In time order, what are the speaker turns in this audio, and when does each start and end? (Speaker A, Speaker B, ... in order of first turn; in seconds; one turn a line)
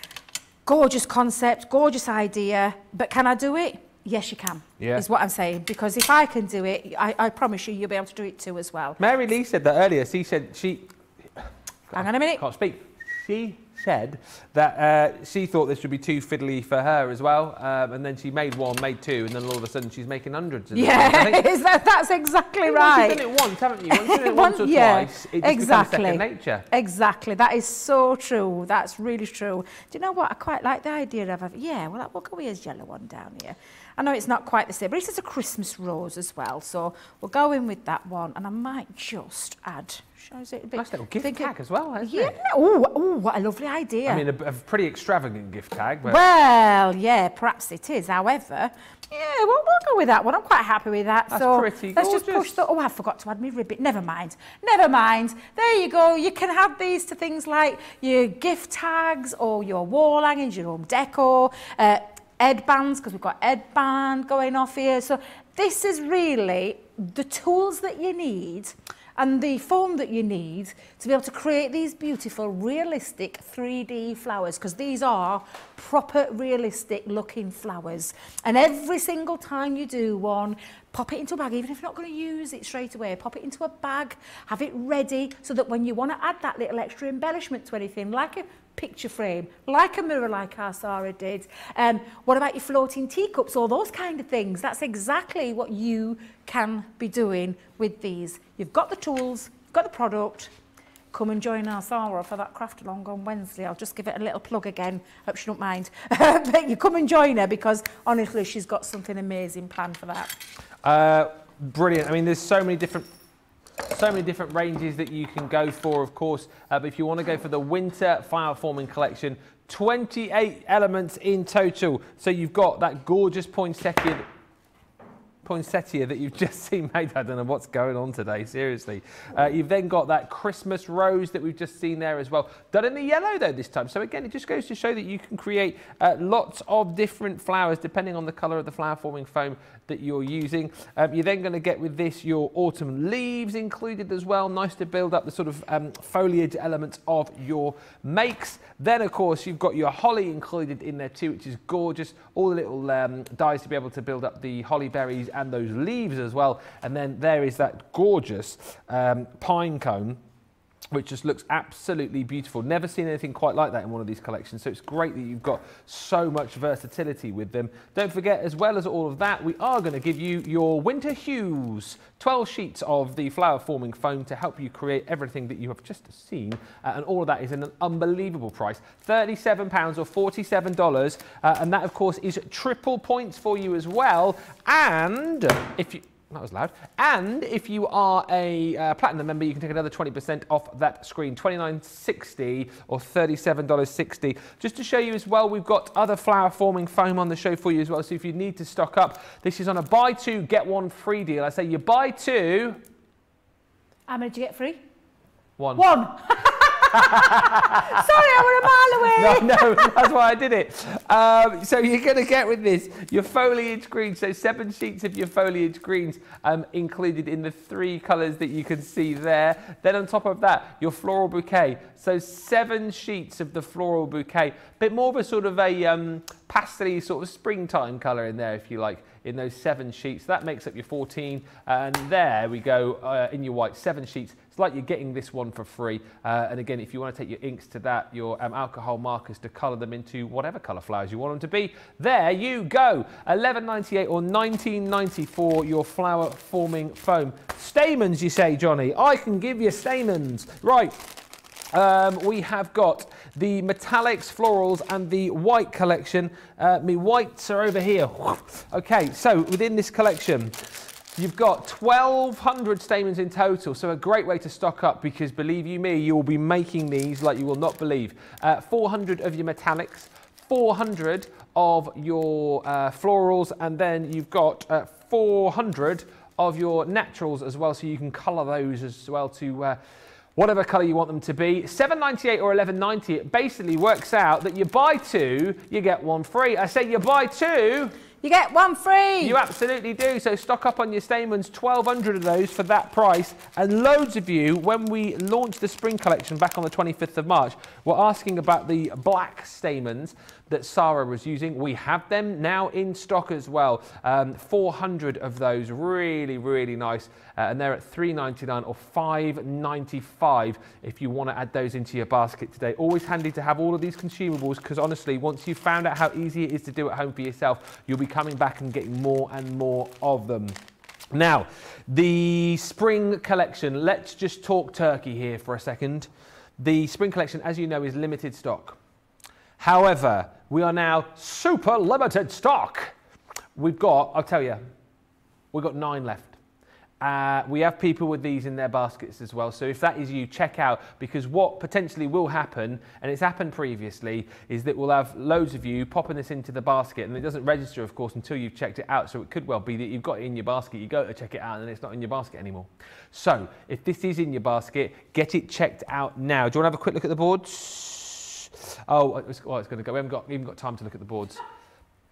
Speaker A: 0.7-9.0
Speaker B: 4.8-5.0
Speaker B: 9.0-21.5
Speaker A: 11.9-12.4
Speaker A: 20.7-23.3
Speaker B: 22.6-26.7
Speaker A: 23.9-44.2
Speaker B: 40.8-42.4
Speaker B: 44.1-46.2
Speaker A: 46.0-100.5
Speaker B: 51.3-52.5
Speaker A: 101.1-110.3
Speaker B: 110.8-113.1
Speaker B: 113.9-124.2
Speaker B: 125.4-160.2
Speaker B: 160.9-202.8
Speaker A: 204.1-204.8
Speaker B: 205.6-205.9
Speaker A: 205.8-210.0
Speaker B: 206.9-251.0
Speaker B: 251.7-279.8
Speaker B: 280.4-287.9
Speaker A: 288.2-289.4
Speaker B: 289.2-320.6
Speaker B: 321.1-328.8
Speaker B: 329.6-332.9
Speaker B: 333.6-334.6
Speaker B: 335.5-336.4
Speaker B: 337.0-361.4